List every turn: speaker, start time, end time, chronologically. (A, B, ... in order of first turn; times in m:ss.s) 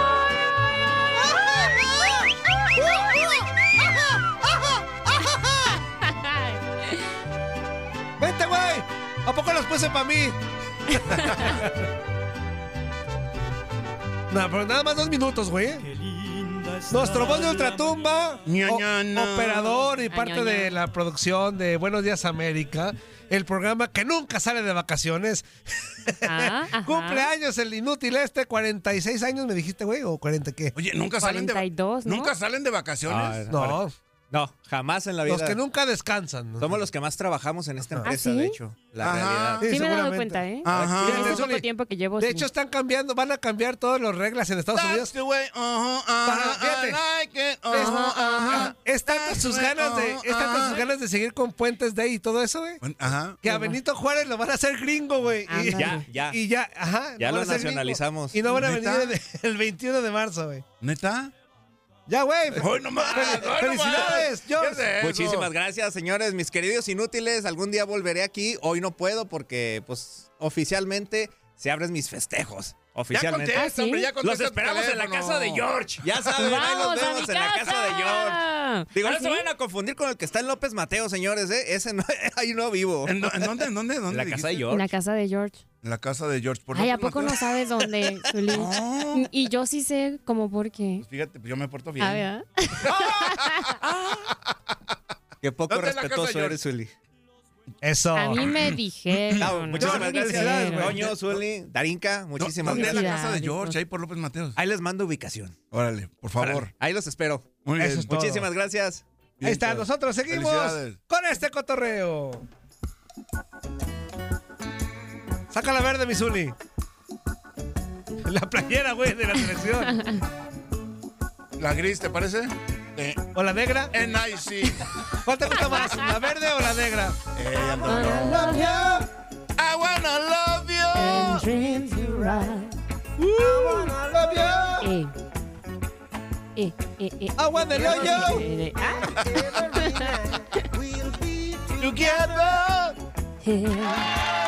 0:01.2-0:02.2 A
0:02.8-0:03.2 A
0:04.6-0:05.4 A
0:06.0-0:07.0 B
0:08.2-0:10.4 A
0:11.0-0:11.8 A
0:14.3-0:15.8 A
0:16.9-0:30.7 A
0:17.2-0:17.6 C
0:18.4-0:19.9 D
0:20.1-0:20.8 B
0:26.2-0:27.3 B
0:30.7-0:33.4 D
0:31.2-0:32.3 B
0:33.1-0:35.6 C
0:33.5-0:33.9 A
0:35.2-0:36.8 A
0:36.6-0:39.7 C
0:38.1-0:38.6 B
0:39.0-0:39.6 D
0:39.6-0:40.4 A
0:39.6-0:42.5 B
0:40.6-0:41.4 D
0:40.7-0:41.1 C
0:41.0-0:41.6 A
0:42.2-0:45.1 A
0:44.7-0:50.8 D
0:46.2-0:47.0 A
0:47.7-0:52.8 A
0:47.7-0:48.7 B
0:52.8-0:53.4 D
0:53.4-1:00.6 A
0:53.4-0:53.8 B
0:55.5-0:56.1 B
0:55.8-0:56.4 C
0:57.2-0:58.4 C
0:58.5-0:59.2 D
1:00.8-1:01.3 D
1:02.1-1:04.9 A
1:02.5-1:05.5 D
1:05.0-1:13.7 C
1:13.1-1:15.7 D
1:13.5-1:14.1 B
1:14.2-1:18.4 C
1:16.2-1:19.5 B
1:18.9-1:23.3 C
1:23.0-1:24.6 D
1:24.1-1:24.9 C
1:24.7-1:25.6 B
1:25.8-1:27.6 D
1:26.7-1:31.0 B
1:28.5-1:29.3 D
1:31.0-1:32.2 D
1:32.0-1:33.8 B
1:32.8-1:34.4 D
1:35.4-1:36.9 C
1:35.7-1:36.6 D
1:37.8-1:38.4 A
1:38.1-1:41.0 B
1:38.4-1:39.5 D
1:39.4-1:43.1 C
1:39.7-1:41.1 A
1:42.4-1:44.6 D
1:42.6-1:43.8 B
1:44.6-1:45.6 C
1:45.7-1:46.7 D
1:46.4-1:47.5 C
1:47.6-1:48.1 D
1:47.8-1:48.5 A
1:48.1-1:49.0 C
1:49.4-1:51.0 D
1:49.4-1:52.4 A
1:55.5-1:56.5 A
1:58.2-2:00.0 A
2:01.6-2:03.2 D
2:03.3-2:03.9 A
2:03.9-2:04.8 D
2:05.2-2:09.0 A
2:07.3-2:08.7 D
2:07.9-2:09.0 B
2:09.6-2:11.4 D
2:10.9-2:12.8 B
2:13.2-2:14.9 A
2:14.8-2:15.1 B
2:16.6-2:19.2 B
2:17.4-2:18.5 A
2:19.4-2:20.1 A
2:19.8-2:20.1 B
2:21.8-2:23.0 D
2:23.4-2:24.1 B